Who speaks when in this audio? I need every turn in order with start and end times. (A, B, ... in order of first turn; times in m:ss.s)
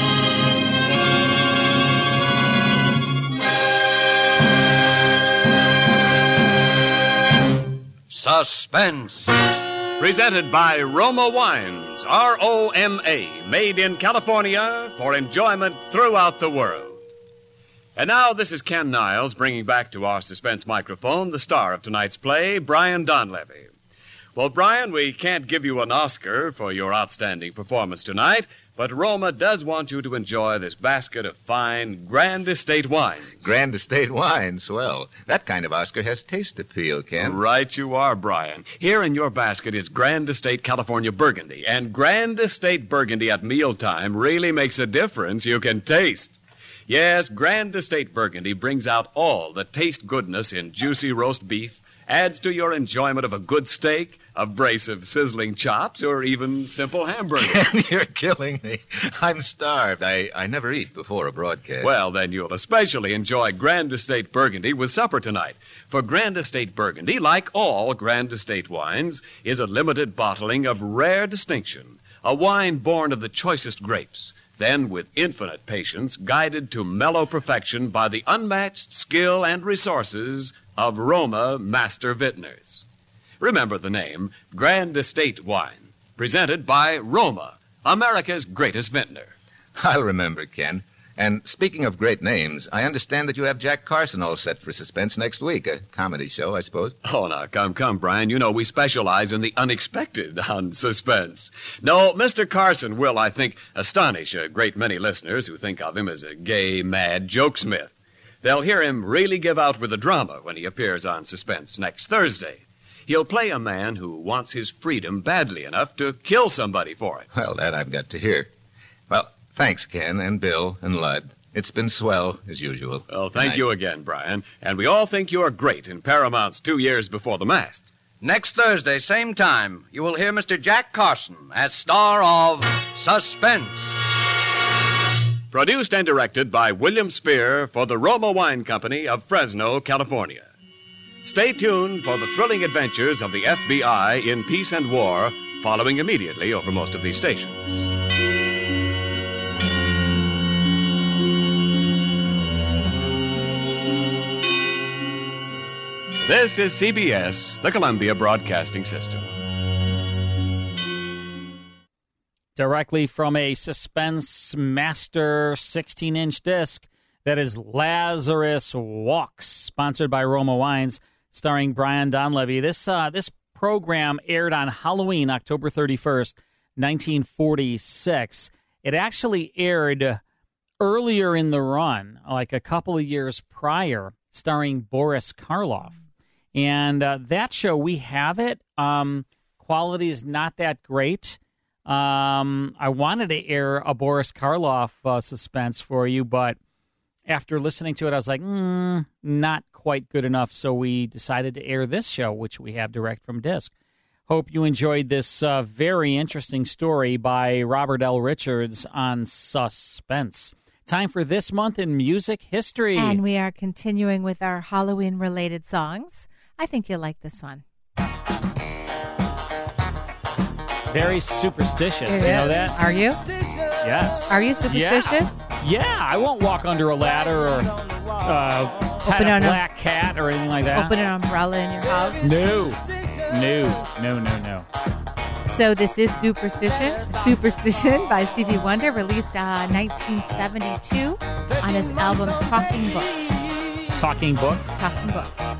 0:08.1-0:09.4 A
0:10.0-0:17.0 B
0:18.0-0:23.7 B
0:24.3-0:33.4 B
0:33.4-0:37.4 C
0:37.2-0:57.7 B
0:57.3-1:01.9 C
1:01.8-1:22.8 B
1:23.4-1:29.3 B
1:29.8-1:37.0 C
1:37.0-1:57.3 B
1:57.3-1:58.5 C
1:59.1-2:03.6 C
2:03.1-2:07.9 B
2:08.2-2:14.0 A
2:15.5-2:20.5 B
2:21.2-2:27.8 B
2:36.2-2:39.3 B
2:42.6-3:00.2 D
3:00.8-3:06.0 D
3:06.5-3:16.6 D
3:17.3-3:23.7 D
3:24.3-3:33.2 D
3:33.0-3:37.6 E
3:40.9-3:42.8 D
3:42.1-3:43.2 E
3:43.8-3:50.9 D
3:44.3-3:45.4 E
3:49.1-3:49.6 E
3:50.7-3:52.2 E
3:52.2-3:54.7 D
3:55.5-4:03.1 E
4:04.0-4:04.7 D
4:04.8-4:05.4 E